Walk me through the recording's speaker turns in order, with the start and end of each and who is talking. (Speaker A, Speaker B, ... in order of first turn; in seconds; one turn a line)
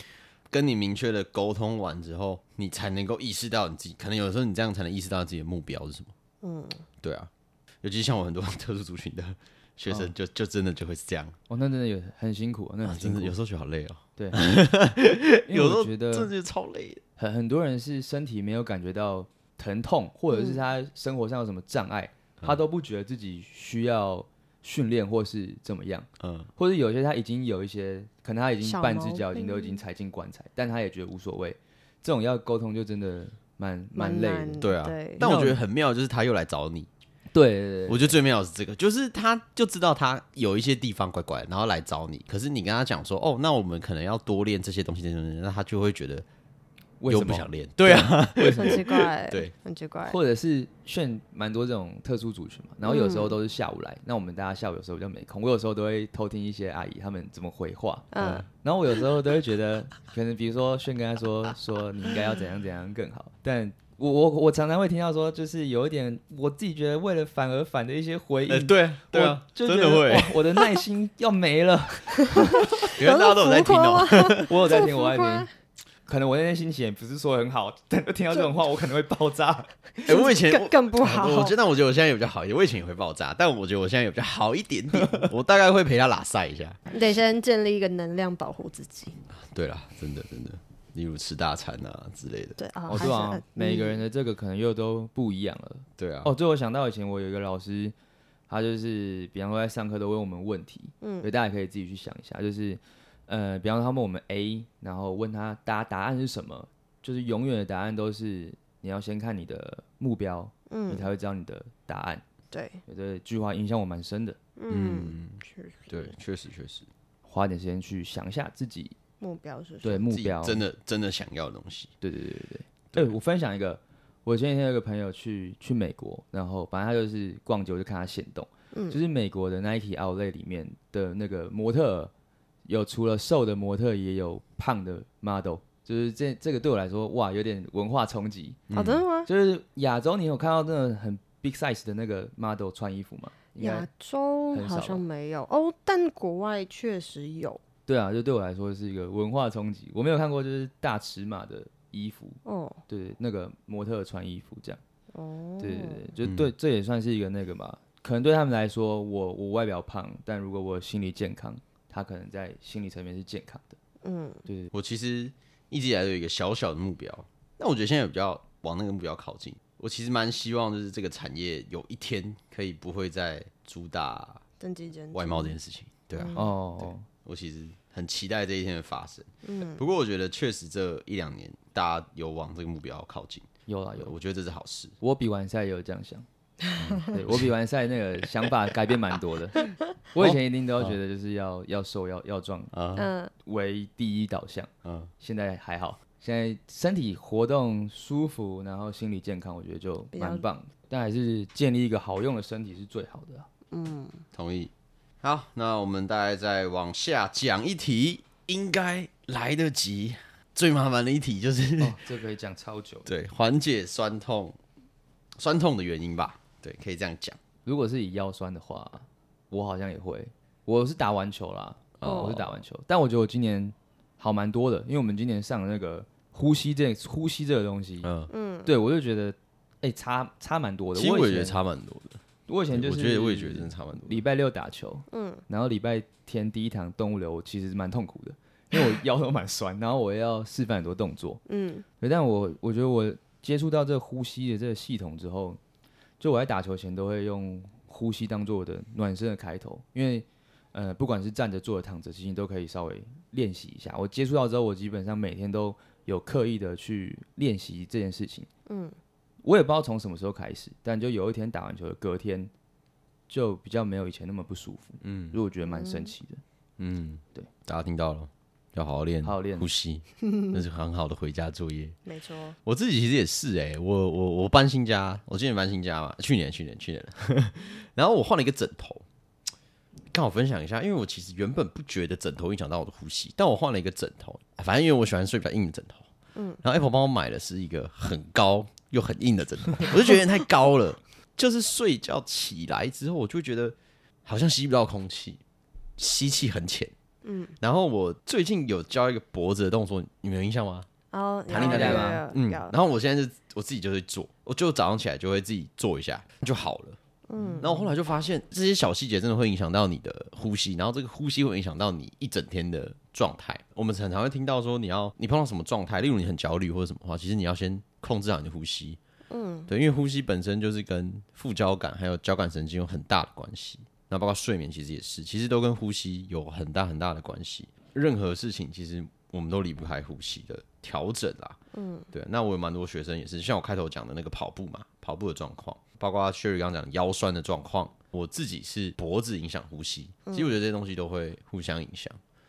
Speaker A: 0.5-6.1
Speaker B: 6.4-6.8
Speaker A: 7.0-7.3
Speaker A: 7.8-11.4
Speaker C: 11.5-13.3
Speaker A: 12.8-17.0
Speaker C: 15.5-16.3
Speaker C: 17.2-35.6
Speaker B: 20.3-20.6
Speaker A: 26.2-26.5
Speaker B: 28.6-29.8
Speaker B: 33.9-35.2
Speaker A: 34.6-36.9
Speaker C: 37.3-38.2
Speaker A: 37.9-46.2
Speaker C: 47.0-48.8
Speaker A: 47.1-49.5
Speaker B: 48.5-50.2
Speaker C: 50.1-72.9
Speaker B: 52.9-53.4
Speaker B: 58.1-58.5
Speaker A: 58.2-58.5
Speaker A: 68.5-70.4
Speaker B: 72.4-75.5
Speaker A: 73.0-74.6
Speaker C: 74.5-75.5
Speaker C: 76.1-80.1
Speaker B: 80.0-81.6
Speaker A: 80.1-86.8
Speaker C: 85.0-85.3
Speaker B: 86.9-89.2
Speaker A: 89.3-93.1
Speaker B: 92.6-94.0
Speaker C: 92.9-97.9
Speaker A: 96.0-96.3
Speaker C: 98.5-112.2
Speaker B: 101.0-101.3
Speaker B: 110.7-111.1
Speaker B: 112.5-112.8
Speaker C: 112.9-114.4
Speaker B: 114.6-116.1
Speaker A: 114.7-116.9
Speaker C: 117.2-118.9
Speaker B: 119.2-120.1
Speaker C: 119.8-120.6
Speaker A: 120.1-121.9
Speaker C: 122.0-132.1
Speaker B: 128.7-129.0
Speaker C: 132.7-138.6
Speaker A: 138.7-139.0
Speaker B: 138.7-139.3
Speaker C: 139.2-143.9
Speaker B: 143.6-147.6
Speaker C: 144.5-145.0
Speaker C: 147.9-154.8
Speaker B: 152.4-152.8
Speaker B: 155.1-156.0
Speaker C: 155.6-163.8
Speaker A: 156.2-156.5
Speaker B: 164.0-164.4
Speaker C: 164.4-164.7
Speaker A: 164.7-174.4
Speaker B: 174.6-175.6
Speaker A: 175.1-183.5
Speaker B: 176.1-176.4
Speaker C: 176.4-177.1
Speaker B: 179.4-179.8
Speaker C: 183.7-184.1
Speaker A: 184.0-184.9
Speaker C: 185.0-186.3
Speaker A: 186.8-187.5
Speaker B: 186.8-187.1
Speaker C: 187.0-192.7
Speaker A: 190.2-191.0
Speaker A: 192.7-193.1
Speaker B: 192.9-193.3
Speaker C: 193.4-203.5
Speaker A: 194.8-195.1
Speaker B: 200.1-200.4
Speaker B: 203.7-204.2
Speaker A: 204.3-212.0
Speaker C: 211.8-213.1
Speaker A: 213.1-214.6
Speaker A: 215.4-217.4
Speaker C: 217.6-228.1
Speaker A: 222.0-222.4
Speaker B: 222.0-222.4
Speaker A: 228.0-228.3
Speaker B: 228.3-228.7
Speaker C: 228.7-231.6
Speaker A: 230.9-232.2
Speaker C: 232.5-241.4
Speaker A: 232.7-234.2
Speaker B: 235.1-235.4
Speaker B: 241.5-241.9
Speaker C: 242.0-245.6
Speaker C: 246.2-258.5
Speaker B: 258.7-258.9
Speaker C: 259.4-262.5
Speaker C: 263.3-266.4
Speaker A: 265.0-265.4
Speaker B: 265.6-266.1
Speaker A: 266.8-271.9
Speaker C: 269.2-269.7
Speaker B: 270.2-270.6
Speaker B: 272.1-272.6
Speaker A: 272.6-279.0
Speaker A: 280.1-286.1
Speaker B: 286.4-286.6
Speaker A: 286.6-295.4
Speaker A: 296.0-296.9
Speaker B: 297.2-297.6
Speaker A: 297.6-300.9
Speaker B: 301.1-302.7
Speaker C: 301.5-302.2
Speaker A: 301.5-307.0
Speaker B: 307.3-307.7
Speaker C: 307.4-307.9
Speaker A: 307.6-319.0
Speaker B: 319.3-319.7
Speaker A: 319.7-331.6
Speaker B: 331.7-332.1
Speaker A: 332.1-342.2
Speaker B: 340.3-340.5